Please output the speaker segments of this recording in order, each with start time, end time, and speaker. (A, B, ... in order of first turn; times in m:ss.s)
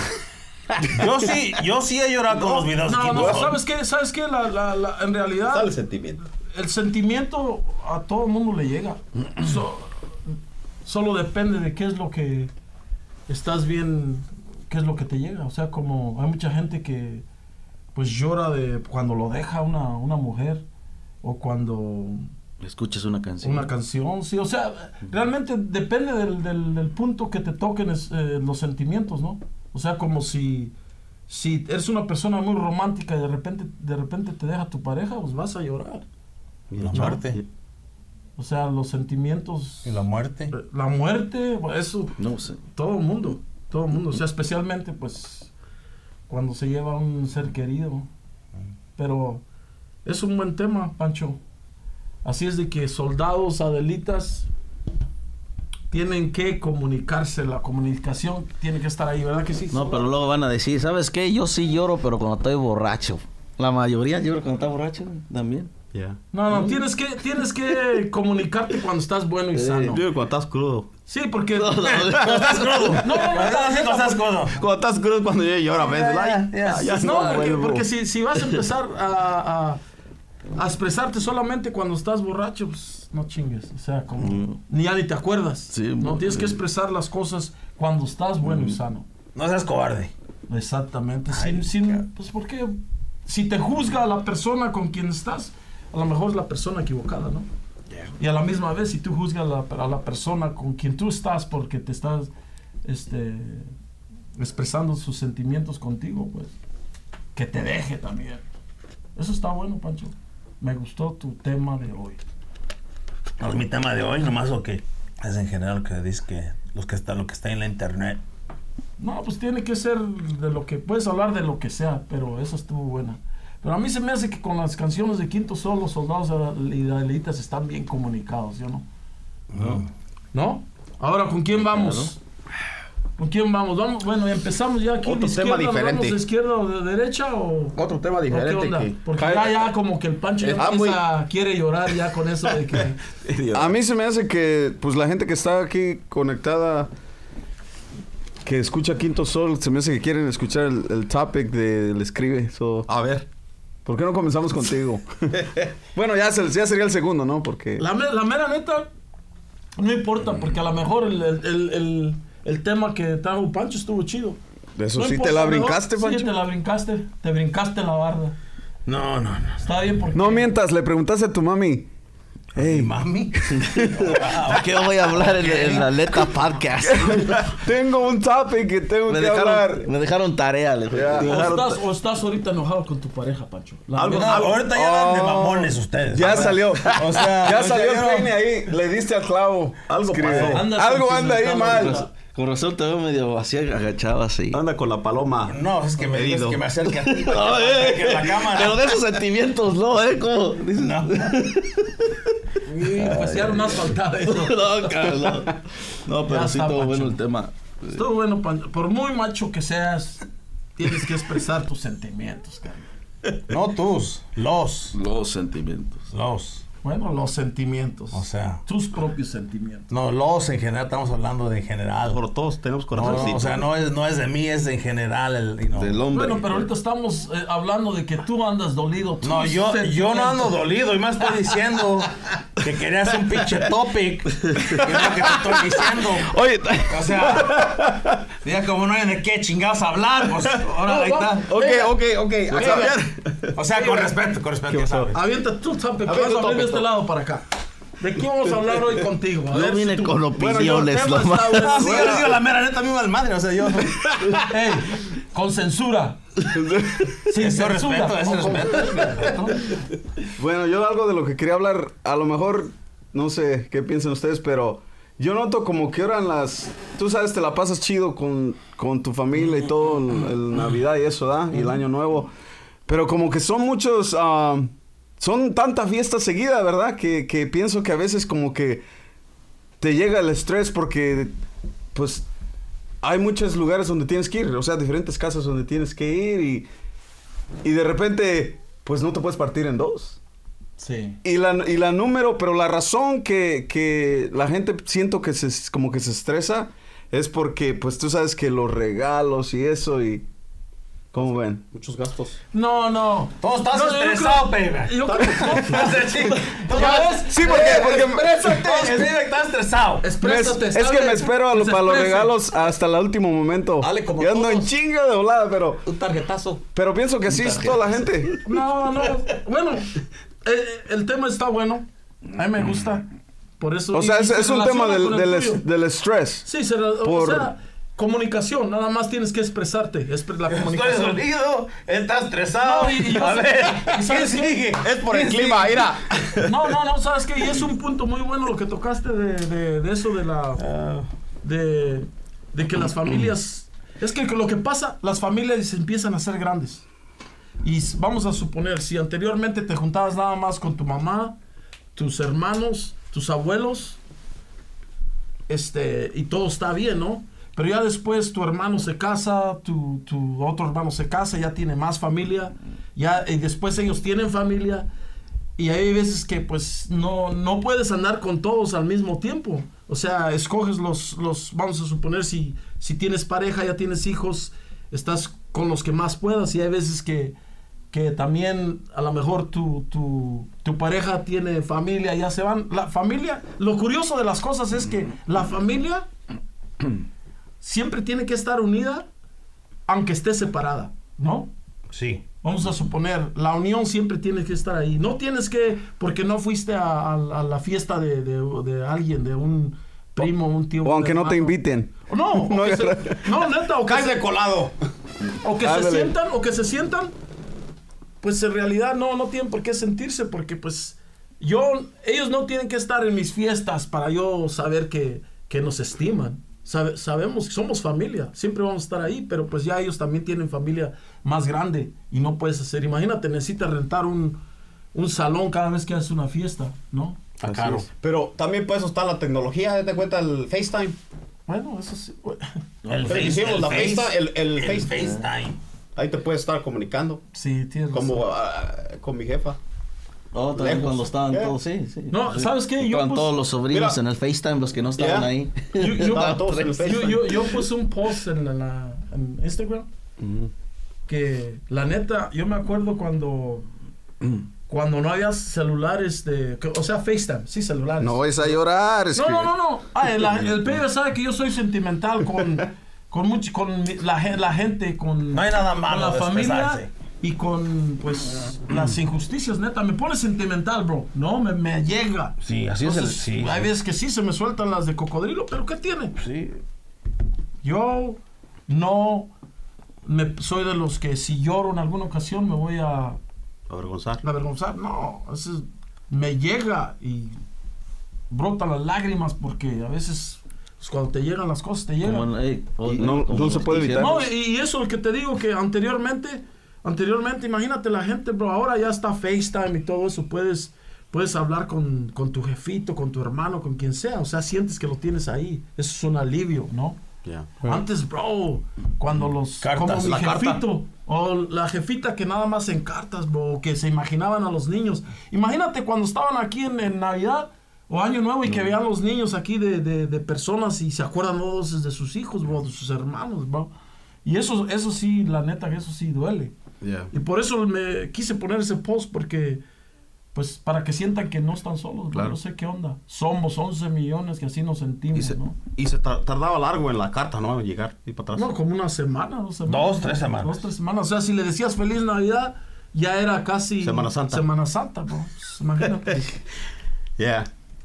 0:00.7-0:01.2 A
0:00.9-0:03.6 B
0:02.8-0:05.7 C
0:05.5-0:06.2 A
0:06.5-0:12.5 C
0:13.3-0:17.2 C
0:18.0-0:20.6 C
0:21.2-0:22.3 C
0:22.6-0:23.7 D
0:23.4-0:30.7 C
0:31.3-0:36.1 C
0:36.7-0:37.4 A
0:36.8-0:37.4 B
0:36.9-0:37.2 C
0:38.4-0:45.5 C
0:39.8-0:40.6 B
0:42.2-0:42.6 D
0:46.3-0:48.1 C
0:49.0-0:49.4 C
0:50.0-0:51.4 C
0:52.2-0:54.5 C
0:55.9-1:00.1 C
0:59.7-1:05.7 D
1:05.9-1:06.2 A
1:06.3-1:10.0 C
1:09.5-1:10.0 D
1:09.9-1:10.9 A
1:11.1-1:11.9 C
1:11.6-1:13.0 D
1:11.8-1:14.6 B
1:12.2-1:13.0 A
1:12.9-1:14.3 C
1:14.5-1:17.9 A
1:15.8-1:17.5 B
1:16.6-1:19.8 C
1:20.6-1:29.1 C
1:24.2-1:24.6 D
1:25.7-1:26.6 D
1:29.4-1:30.1 B
1:30.5-1:37.5 C
1:31.3-1:32.0 B
1:38.2-1:42.3 C
1:42.8-1:43.7 C
1:44.4-1:46.5 C
1:47.4-1:48.4 C
1:49.2-1:52.2 C
1:53.4-1:58.2 B
1:59.0-2:08.9 C
2:09.5-2:09.9 B
2:10.3-2:12.2 C
2:11.6-2:12.1 D
2:13.2-2:23.0 C
2:15.0-2:16.2 A
2:17.8-2:19.3 A
2:19.2-2:19.6 E
2:20.4-2:21.0 A
2:23.2-2:23.8 A
2:23.5-2:26.9 E
2:28.4-2:32.9 E
2:32.9-2:33.3 A
2:33.8-2:37.8 E
2:37.8-2:38.9 C
2:39.8-2:44.4 C
2:44.8-2:46.3 E
2:45.0-2:48.4 C
2:48.9-2:49.7 B
2:49.6-2:50.5 C
2:50.1-2:51.9 E
2:52.6-2:56.4 B
2:52.6-2:52.9 E
2:53.5-2:54.1 E
2:53.6-2:57.6 D
2:56.8-2:59.9 E
2:59.1-3:01.7 D
3:00.9-3:01.7 E
3:01.2-3:04.6 C
3:04.0-3:04.7 A
3:04.1-3:08.4 B
3:04.6-3:12.0 E
3:06.2-3:07.3 A
3:09.9-3:10.7 A
3:10.2-3:12.1 C
3:11.6-3:14.6 D
3:14.5-3:16.6 A
3:15.5-3:18.9 B
3:16.9-3:22.2 D
3:20.7-3:21.5 B
3:22.6-3:25.0 C
3:22.9-3:28.0 D
3:26.3-3:27.2 C
3:27.9-3:30.2 C
3:30.8-3:32.9 C
3:33.5-3:35.0 B
3:34.9-3:36.1 D
3:36.1-3:36.6 B
3:36.8-3:39.9 C
3:38.1-3:38.6 B
3:39.9-3:42.2 B
3:42.1-3:43.6 A
3:42.9-3:46.0 B
3:45.7-3:46.7 D
3:46.1-3:50.6 C
3:49.2-4:01.5 B
3:56.5-3:57.5 E
4:00.7-4:02.0 C
4:01.5-4:03.6 A
4:02.5-4:03.0 C
4:03.6-4:05.2 B
4:03.7-4:04.1 C
4:04.8-4:05.1 A
4:05.1-4:07.4 C
4:06.1-4:06.9 A
4:08.0-4:12.3 C
4:09.5-4:11.8 D
4:11.5-4:14.4 B
4:14.4-4:16.2 C
4:16.5-4:17.2 E
4:17.3-4:19.8 C
4:17.4-4:19.5 B
4:20.4-4:32.3 E
4:32.9-4:38.8 E
4:39.8-4:41.4 E
4:41.9-4:42.3 E
4:43.0-4:46.7 E
4:47.6-4:50.2 E
4:50.8-4:51.2 C
4:51.2-5:00.3 E
5:01.1-5:01.6 E
5:01.1-5:02.4 A
5:02.5-5:09.1 C
5:03.4-5:10.1 B
5:05.1-5:05.9 A
5:06.7-5:07.1 A
5:07.0-5:08.6 E
5:10.0-5:12.4 C
5:10.2-5:15.8 E
5:13.8-5:14.7 A
5:15.9-5:16.6 A
5:16.8-5:18.4 E
5:17.4-5:17.8 A
5:18.4-5:23.1 C
5:23.6-5:25.6 C
5:23.9-5:26.5 E
5:26.4-5:31.2 C
5:27.0-5:27.5 E
5:30.5-5:35.9 B
5:32.6-5:34.7 C
5:34.8-5:36.6 A
5:36.4-5:40.7 C
5:40.6-5:41.1 B
5:41.4-5:46.9 C
5:47.6-5:51.4 C
5:52.0-5:54.0 C
5:55.5-6:04.9 C
6:05.6-6:17.4 C
6:17.9-6:26.1 C
6:27.6-6:29.1 C
6:29.9-6:31.5 C
6:31.9-6:32.2 B
6:32.4-6:44.2 C
6:40.8-6:43.3 E
6:43.8-6:44.7 A
6:45.4-6:47.1 C
6:45.6-6:46.1 E
6:48.2-7:04.4 C
7:04.9-7:07.2 C
7:07.4-7:07.9 B
7:07.4-7:07.8 E
7:07.9-7:11.0 A
7:11.5-7:12.6 C
7:12.8-7:15.6 B
7:13.1-7:15.1 A
7:16.0-7:17.2 A
7:17.3-7:18.2 C
7:17.9-7:19.6 A
7:20.3-7:27.2 D
7:20.6-7:21.6 A
7:22.1-7:23.3 C
7:23.7-7:24.0 A
7:25.0-7:25.3 A
7:25.8-7:29.9 C
7:25.9-7:27.5 A
7:30.2-7:30.5 A
7:31.1-7:33.7 C
7:34.7-7:38.6 C
7:38.1-7:39.5 E
7:39.1-7:56.2 C
7:45.3-7:46.9 B
7:52.4-7:53.7 B
7:56.2-7:56.5 D
7:57.6-7:59.3 C
8:00.0-8:03.2 C
8:03.7-8:04.2 A
8:04.2-8:07.4 C
8:08.3-8:12.3 C
8:12.0-8:14.3 D
8:12.9-8:14.2 E
8:14.0-8:27.0 C
8:27.2-8:27.8 A
8:27.6-8:43.7 C
8:29.6-8:30.4 B
8:30.0-8:30.6 A
8:44.2-8:46.6 C
8:46.8-8:47.1 A
8:47.1-8:49.6 C
8:50.4-8:55.6 C
8:55.2-8:58.5 A
8:58.3-9:06.4 C
8:59.7-9:00.6 B
9:03.8-9:04.4 A
9:07.2-9:07.5 A